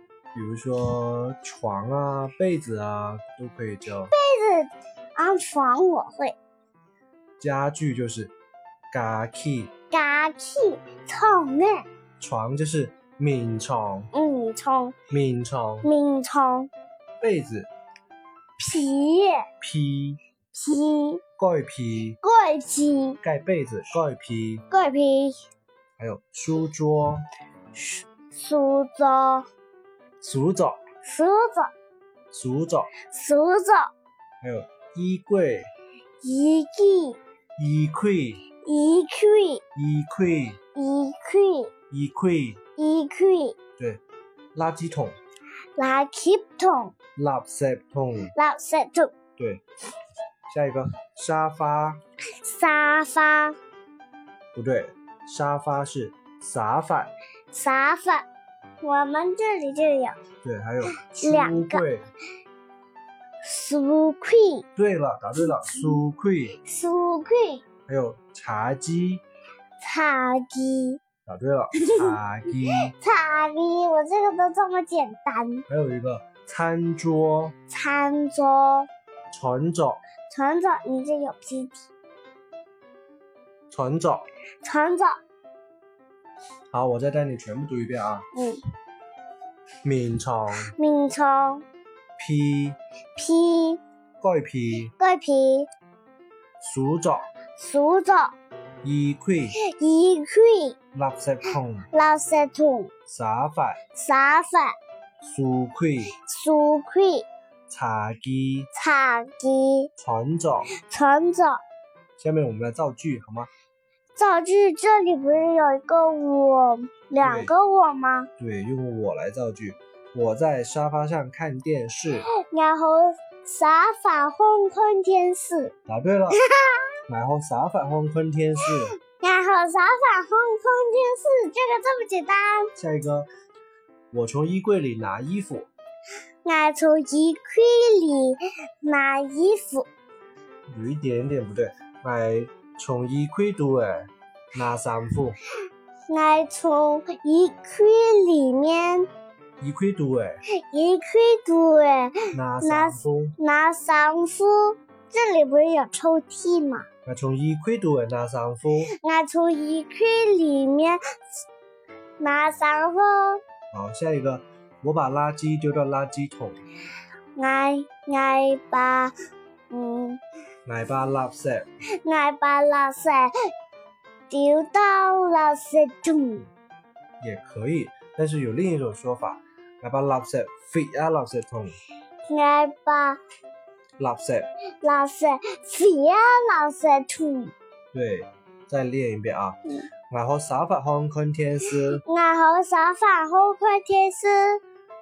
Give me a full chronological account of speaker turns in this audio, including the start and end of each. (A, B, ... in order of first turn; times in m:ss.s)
0:00.3-0:04.1 A
0:04.1-0:06.4 B
0:07.4-0:08.3 A
0:08.9-0:09.7 A
0:09.9-0:11.8 B
0:12.2-0:14.1 A
0:14.1-0:15.0 B
0:15.1-0:15.9 A
0:15.8-0:16.7 B
0:17.2-0:17.7 A
0:18.6-0:19.4 B
0:19.6-0:20.2 A
0:20.5-0:21.2 B
0:21.4-0:22.2 A
0:22.2-0:23.2 B
0:23.2-0:24.6 A
0:24.7-0:25.4 B
0:26.0-0:27.2 A
0:27.7-0:29.4 B
0:30.2-0:30.8 A
0:31.0-0:31.7 B
0:32.3-0:32.9 A
0:33.0-0:33.9 B
0:34.4-0:35.7 A
0:36.2-0:37.2 B
0:37.6-0:38.4 A
0:38.6-0:39.6 B
0:39.7-0:40.6 A
0:40.7-0:41.7 B
0:41.9-0:42.6 A
0:42.8-0:43.6 B
0:44.5-0:45.2 A
0:45.8-0:46.9 B
0:47.2-0:48.3 A
0:48.3-0:49.1 B
0:50.5-0:52.0 A
0:52.4-0:53.6 B
0:54.5-0:57.1 A
0:57.5-0:58.2 B
0:58.8-1:00.2 B
1:00.4-1:02.0 A
1:00.9-1:01.8 B
1:03.4-1:04.6 B
1:04.8-1:06.6 A
1:05.4-1:06.0 B
1:06.6-1:07.6 B
1:07.9-1:09.2 A
1:09.8-1:11.0 B
1:11.2-1:12.9 A
1:11.8-1:12.2 B
1:12.9-1:15.6 B
1:15.7-1:17.5 A
1:17.7-1:18.9 B
1:19.3-1:20.0 A
1:20.3-1:21.8 B
1:23.7-1:24.2 A
1:24.6-1:25.1 B
1:26.7-1:28.3 A
1:28.3-1:28.6 B
1:29.8-1:30.7 A
1:30.7-1:31.6 B
1:32.2-1:32.8 A
1:33.2-1:33.8 B
1:34.2-1:34.9 A
1:35.0-1:35.7 B
1:36.6-1:37.2 A
1:37.6-1:38.3 B
1:38.8-1:39.6 A
1:39.7-1:40.8 B
1:40.9-1:41.9 A
1:41.9-1:42.9 B
1:43.1-1:43.8 A
1:43.9-1:44.7 B
1:45.2-1:46.1 A
1:46.2-1:47.2 B
1:47.7-1:48.7 A
1:48.7-1:49.9 B
1:50.0-1:50.7 A
1:50.8-1:51.6 B
1:52.2-1:53.5 A
1:54.2-1:58.3 B
1:57.2-1:57.5 A
1:58.4-2:02.3 A
2:02.3-2:05.7 B
2:05.9-2:06.4 A
2:06.3-2:06.8 B
2:07.1-2:08.9 A
2:09.0-2:12.7 B
2:12.8-2:13.3 A
2:14.1-2:15.7 A
2:16.4-2:19.9 B
2:20.7-2:25.4 A
2:26.1-2:29.1 B
2:29.6-2:30.4 A
2:30.7-2:36.9 B
2:32.3-2:33.4 A
2:37.0-2:38.9 A
2:39.0-2:41.4 B
2:42.2-2:43.4 B
2:43.7-2:46.6 A
2:47.3-2:49.1 B
2:49.7-2:50.2 B
2:50.6-2:51.7 A
2:52.0-2:53.3 B
2:54.3-2:56.5 B
2:57.2-3:01.8 A
3:02.3-3:03.2 B
3:04.0-3:04.5 A
3:04.8-3:07.5 B
3:07.9-3:09.6 A
3:10.1-3:12.0 A
3:12.0-3:14.6 B